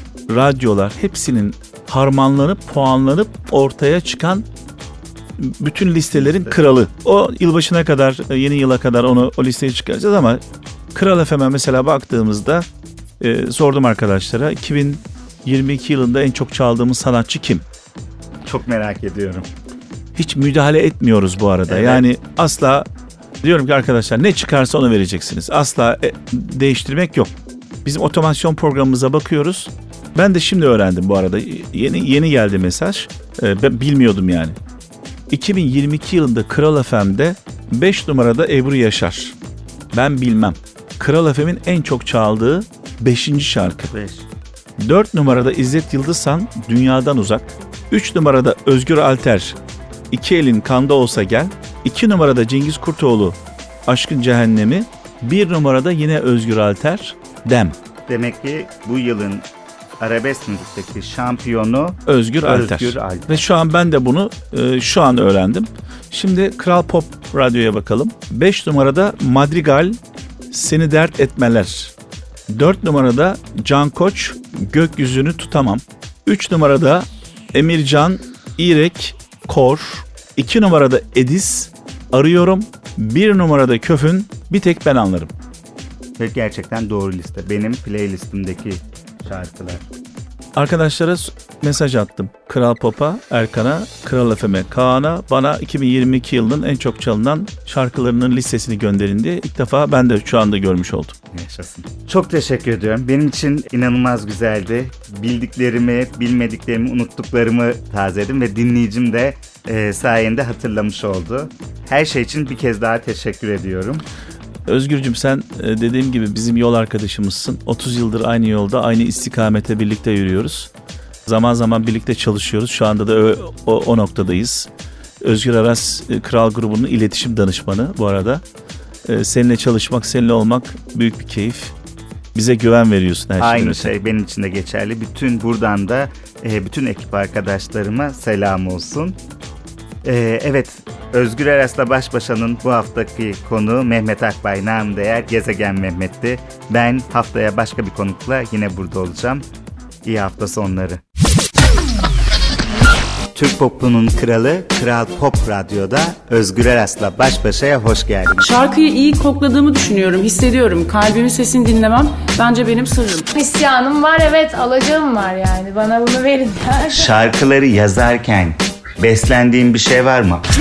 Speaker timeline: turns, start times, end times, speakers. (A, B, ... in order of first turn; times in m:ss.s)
0:00.3-0:04.5 A
0:05.4-0:10.4 A
0:06.1-0:06.6 B
0:10.9-0:12.6 A
0:13.2-0:17.6 A
0:18.4-0:19.5 B
0:20.2-0:22.9 A
0:21.7-0:22.0 B
0:23.4-0:27.3 A
0:27.8-0:34.6 A
0:35.3-0:39.3 A
0:39.9-0:43.9 A
0:43.9-0:44.3 B
0:44.8-0:49.6 A
0:50.1-0:57.8 A
0:58.1-0:59.5 B
1:00.0-1:03.5 B
1:02.0-1:10.0 A
1:10.5-1:11.9 A
1:12.5-1:25.3 A
1:26.2-1:29.8 B
1:30.6-1:41.1 A
1:41.3-1:54.0 B
1:54.6-2:00.7 A
2:01.2-2:04.7 A
2:05.2-2:08.4 A
2:09.0-2:11.7 A
2:12.3-2:14.0 A
2:13.4-2:19.2 B
2:20.0-2:29.4 B
2:30.0-2:31.0 B
2:33.3-2:38.5 B
2:38.4-2:43.3 C
2:43.3-2:47.1 D
2:46.9-2:50.4 B